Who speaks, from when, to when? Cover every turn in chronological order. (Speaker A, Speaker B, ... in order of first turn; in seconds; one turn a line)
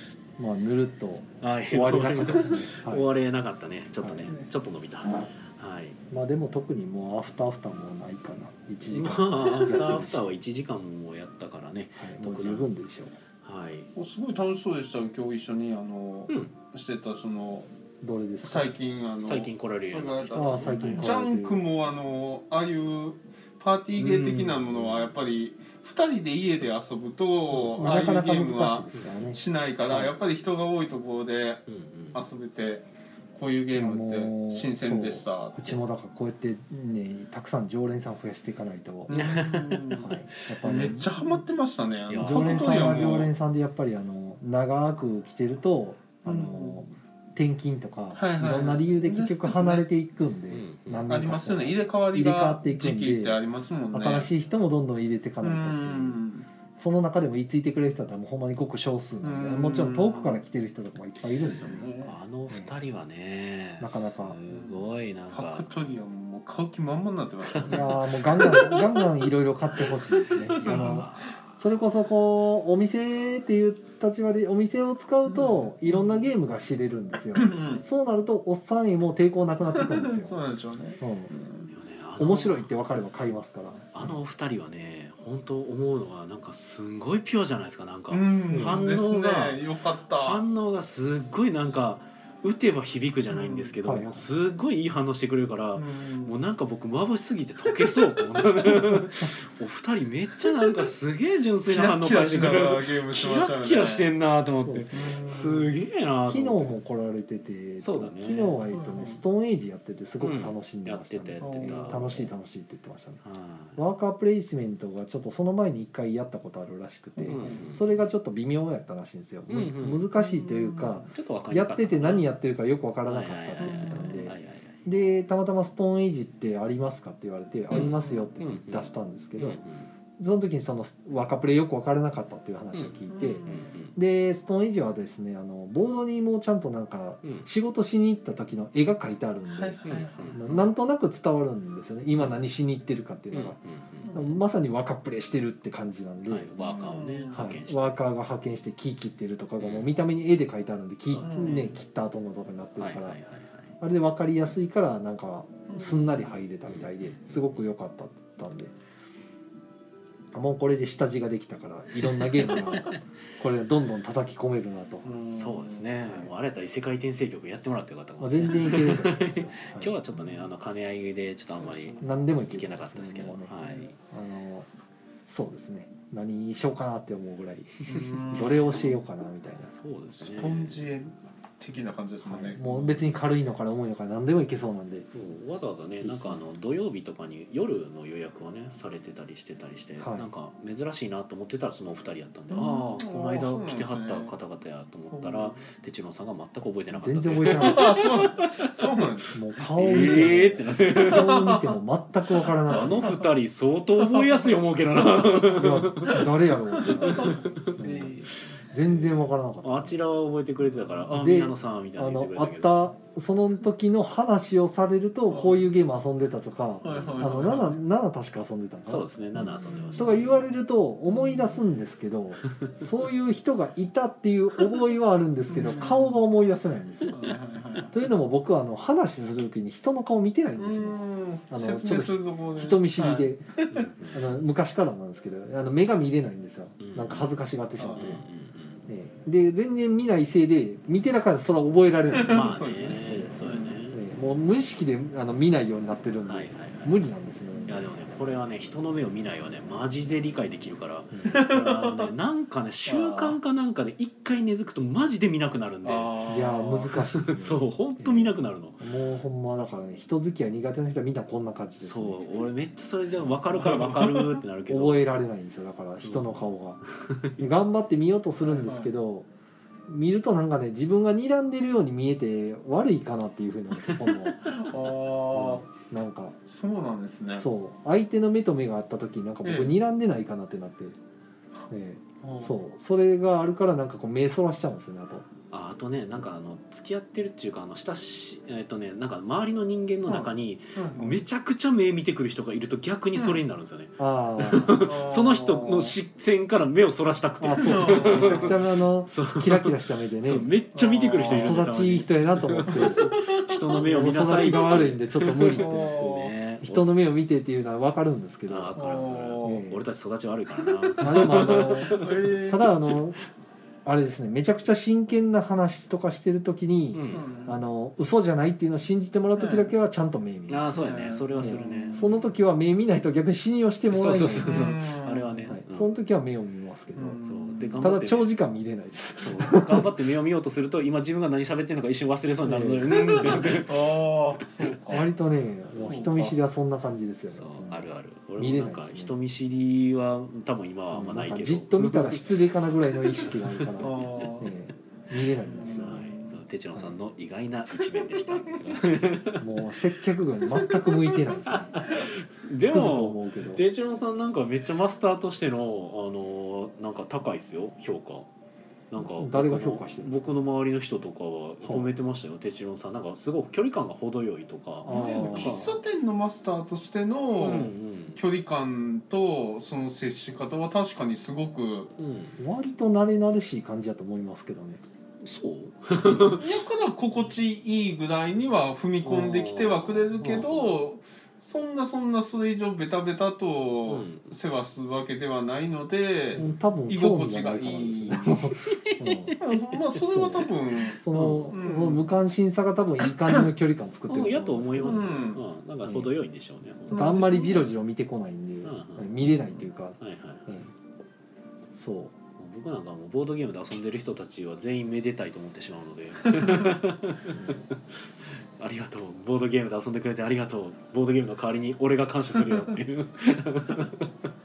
Speaker A: 0.4-3.0
Speaker B: 1.4-6.0
Speaker A: 4.0-4.3
Speaker A: 6.1-10.3
Speaker B: 8.8-12.7
Speaker A: 12.0-13.2
Speaker B: 13.4-13.9
Speaker C: 13.9-17.7
Speaker B: 16.3-16.5
Speaker A: 18.0-18.7
Speaker C: 18.4-35.8
Speaker B: 19.2-21.2
Speaker A: 20.3-21.6
Speaker B: 24.0-25.1
Speaker A: 27.5-30.1
Speaker B: 28.9-29.3
Speaker B: 31.7-32.2
Speaker A: 33.7-39.2
Speaker C: 39.1-43.3
Speaker B: 39.1-40.1
Speaker A: 40.0-41.2
Speaker B: 40.6-41.0
Speaker B: 42.1-43.0
Speaker A: 42.2-53.4
Speaker C: 46.2-46.9
Speaker C: 48.1-49.9
Speaker B: 50.5-51.1
Speaker C: 51.1-54.3
Speaker A: 53.9-56.2
Speaker C: 55.4-56.5
Speaker A: 56.8-61.9
Speaker C: 59.2-60.4
Speaker C: 61.4-62.1
Speaker B: 62.0-65.7
Speaker A: 63.8-64.4
Speaker C: 64.5-69.0
Speaker B: 67.5-68.0
Speaker A: 67.7-80.4
Speaker C: 69.8-71.1
Speaker B: 70.5-71.6
Speaker C: 75.3-76.2
Speaker C: 77.3-77.8
Speaker C: 79.7-81.7
Speaker A: 81.0-81.3
Speaker B: 81.7-82.7
Speaker A: 82.2-84.1
Speaker B: 83.9-106.8
Speaker C: 88.1-90.4
Speaker A: 88.5-88.8
Speaker C: 93.3-93.8
Speaker A: 93.8-94.3
Speaker C: 95.7-96.3
Speaker C: 101.7-104.1
Speaker A: 104.6-105.4
Speaker C: 104.9-105.7
Speaker A: 106.2-113.2
Speaker B: 107.8-108.6
Speaker C: 108.7-109.2
Speaker B: 110.2-112.3
Speaker C: 111.4-112.0
Speaker B: 113.2-113.8
Speaker A: 113.8-129.6
Speaker B: 117.2-118.0
Speaker C: 117.4-117.7
Speaker B: 119.5-120.0
Speaker C: 120.2-121.0
Speaker B: 121.1-122.3
Speaker B: 123.0-124.8
Speaker C: 123.6-124.3
Speaker B: 127.7-129.9
Speaker C: 128.0-128.2
Speaker A: 130.2-133.4
Speaker B: 132.7-133.9
Speaker C: 133.1-133.7
Speaker A: 133.9-143.6
Speaker C: 139.6-140.7
Speaker B: 139.8-140.5
Speaker B: 142.1-142.4
Speaker B: 143.3-144.3
Speaker A: 144.1-146.5
Speaker B: 146.2-148.0
Speaker C: 146.6-147.5
Speaker A: 147.3-153.2
Speaker B: 149.6-149.9
Speaker B: 151.0-151.7
Speaker C: 151.2-151.8
Speaker B: 152.8-153.7
Speaker A: 153.8-158.7
Speaker C: 155.7-156.3
Speaker B: 156.7-157.7
Speaker A: 160.3-165.1
Speaker B: 162.4-162.8
Speaker C: 165.0-165.9
Speaker B: 165.2-173.9
Speaker A: 168.2-169.9
Speaker C: 171.6-172.0
Speaker A: 172.0-174.7
Speaker C: 173.6-173.9
Speaker A: 175.3-179.7
Speaker C: 177.8-179.0
Speaker B: 179.6-180.9
Speaker C: 180.2-183.1
Speaker A: 182.2-185.1
Speaker B: 185.1-198.8
Speaker A: 186.0-186.4
Speaker A: 190.0-190.3
Speaker C: 192.5-194.3
Speaker C: 195.1-195.7
Speaker A: 196.9-197.9
Speaker C: 197.4-199.3
Speaker A: 199.3-203.2
Speaker B: 199.6-201.4
Speaker C: 201.0-201.7
Speaker B: 202.7-206.3
Speaker C: 202.7-203.3
Speaker C: 204.0-204.5
Speaker A: 205.5-210.0
Speaker C: 206.1-208.3
Speaker B: 206.8-212.8
Speaker A: 211.1-219.1
Speaker C: 215.3-215.6
Speaker C: 216.8-217.8
Speaker B: 216.8-217.6
Speaker B: 218.8-220.5
Speaker C: 219.4-220.2
Speaker A: 219.9-227.2
Speaker C: 221.1-221.6
Speaker B: 222.4-222.8
Speaker C: 225.5-226.2
Speaker C: 227.1-227.9
Speaker A: 227.9-231.0
Speaker C: 230.6-233.9
Speaker A: 231.5-233.4
Speaker B: 233.7-234.2
Speaker A: 234.1-238.2
Speaker B: 236.8-237.3
Speaker C: 237.8-238.2
Speaker B: 237.9-238.8
Speaker A: 238.9-242.5
Speaker C: 242.1-243.8
Speaker B: 242.2-244.0
Speaker A: 243.1-243.3
Speaker A: 243.9-247.9
Speaker B: 246.2-247.0
Speaker B: 247.7-256.1
Speaker A: 251.1-251.4
Speaker C: 251.3-252.1
Speaker C: 252.8-253.4
Speaker C: 255.8-257.0
Speaker A: 256.3-262.2
Speaker B: 257.2-258.8
Speaker B: 261.8-265.1
Speaker C: 263.5-264.4
Speaker A: 264.7-266.8
Speaker B: 266.0-266.4
Speaker B: 266.9-267.5
Speaker A: 267.4-269.3
Speaker C: 268.5-268.9
Speaker A: 269.9-274.4
Speaker B: 273.8-274.1
Speaker C: 274.4-275.6
Speaker A: 275.3-276.4
Speaker C: 276.5-277.5
Speaker A: 277.3-281.0
Speaker C: 279.4-279.7
Speaker A: 281.7-285.3
Speaker C: 282.2-282.5
Speaker B: 285.5-306.9
Speaker C: 290.0-291.2
Speaker A: 294.0-294.8
Speaker C: 294.8-295.9
Speaker A: 297.4-300.5
Speaker C: 297.6-298.6
Speaker C: 300.7-301.6
Speaker A: 301.3-303.1
Speaker C: 302.7-304.7
Speaker A: 303.7-306.0
Speaker C: 305.5-306.3
Speaker A: 306.6-308.8
Speaker B: 308.5-312.1
Speaker C: 308.8-309.6
Speaker A: 309.4-309.8
Speaker C: 310.7-312.8
Speaker A: 311.0-313.2
Speaker A: 313.8-320.7
Speaker B: 316.9-317.2
Speaker C: 317.1-317.6
Speaker C: 319.4-319.7
Speaker B: 320.5-322.3
Speaker C: 320.7-322.1
Speaker A: 321.4-324.7
Speaker B: 323.9-325.9
Speaker C: 324.4-325.5
Speaker A: 325.5-327.2
Speaker C: 326.9-327.9
Speaker B: 327.2-328.3
Speaker A: 327.8-329.9
Speaker B: 329.2-333.9
Speaker A: 332.4-333.6
Speaker C: 333.2-335.1
Speaker A: 334.9-339.1
Speaker C: 335.8-336.3
Speaker B: 337.3-342.2
Speaker A: 340.9-346.0
Speaker B: 343.1-343.7
Speaker C: 343.8-344.5
Speaker C: 345.4-346.4
Speaker B: 345.8-349.7
Speaker A: 349.4-351.8
Speaker B: 351.4-358.3
Speaker A: 352.6-353.6
Speaker B: 358.9-365.7
Speaker A: 359.0-360.2
Speaker A: 361.6-361.9
Speaker A: 364.8-365.7
Speaker C: 364.9-371.9
Speaker B: 367.4-368.2
Speaker B: 372.0-372.4
Speaker A: 372.4-374.8
Speaker B: 375.2-376.5
Speaker C: 376.4-388.4
Speaker B: 379.0-380.8
Speaker B: 383.9-384.3
Speaker A: 386.4-389.4
Speaker B: 388.6-389.4
Speaker C: 389.4-392.0
Speaker A: 390.0-395.1
Speaker B: 391.1-391.5
Speaker B: 394.1-397.2
Speaker C: 394.8-395.4
Speaker A: 395.8-396.1
Speaker C: 396.9-397.7
Speaker A: 396.9-400.7
Speaker B: 398.6-400.7
Speaker A: 401.8-402.1
Speaker B: 402.4-414.1
Speaker A: 407.3-407.6